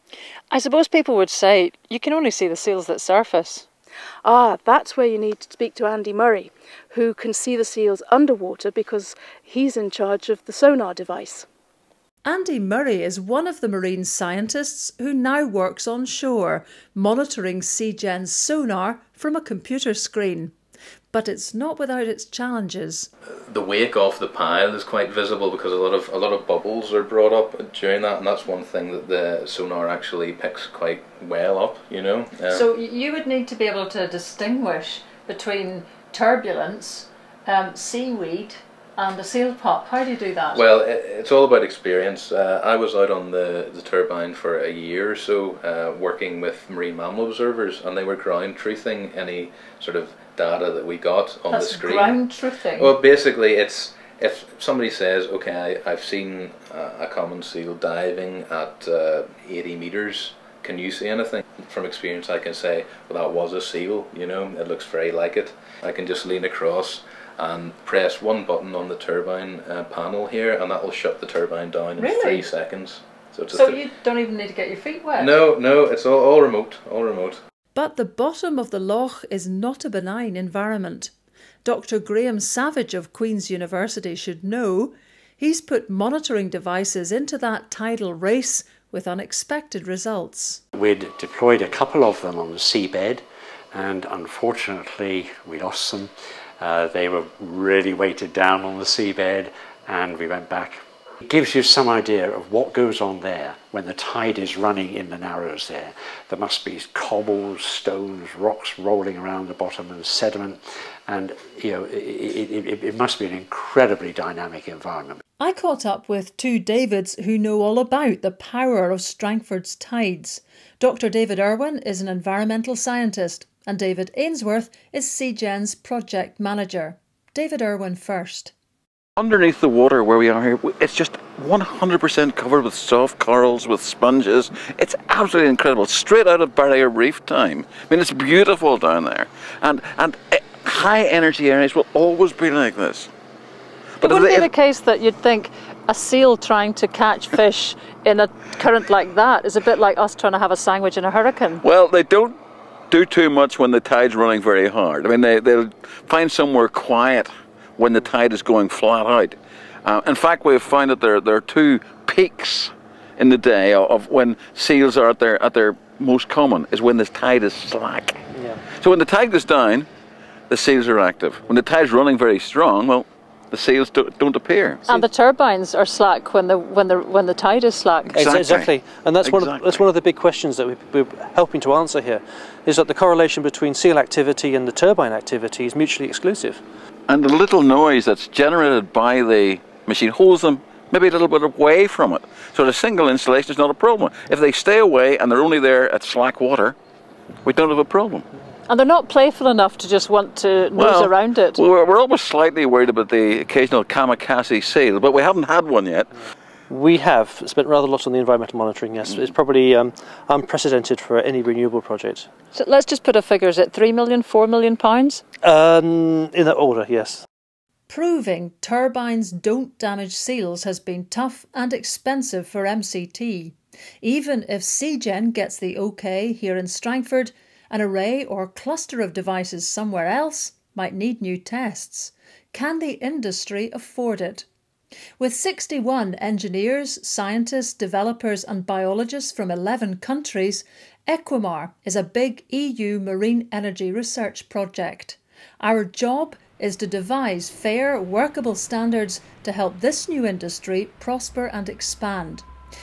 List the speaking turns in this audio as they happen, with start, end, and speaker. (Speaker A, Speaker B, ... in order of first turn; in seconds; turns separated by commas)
Speaker A: 0.5-3.6, Speaker B: 4.2-11.5, Speaker C: 12.2-20.6, Speaker C: 21.1-23.1, Speaker D: 23.5-32.7, Speaker C: 32.5-40.6, Speaker D: 40.5-52.2, Speaker C: 51.5-52.9, Speaker D: 52.7-73.8, Speaker C: 72.0-72.4, Speaker A: 73.6-75.3, Speaker D: 75.1-77.4, Speaker C: 77.8-81.1, Speaker C: 81.6-90.6, Speaker E: 90.7-115.2, Speaker C: 115.4-128.5, Speaker F: 129.2-143.1, Speaker F: 144.0-144.5, Speaker A: 144.0-151.6, Speaker F: 151.6-152.4, Speaker F: 152.9-168.2, Speaker G: 168.4-168.6, Speaker F: 168.7-169.9, Speaker F: 170.5-175.0, Speaker A: 174.9-178.2, Speaker F: 178.1-179.9, Speaker G: 178.1-186.6, Speaker F: 187.1-196.8, Speaker F: 197.4-198.2, Speaker A: 198.7-201.6, Speaker F: 200.8-206.1, Speaker G: 206.7-212.3, Speaker F: 209.0-209.3, Speaker A: 212.5-215.2, Speaker G: 215.4-217.2, Speaker C: 217.9-234.5, Speaker C: 235.2-252.5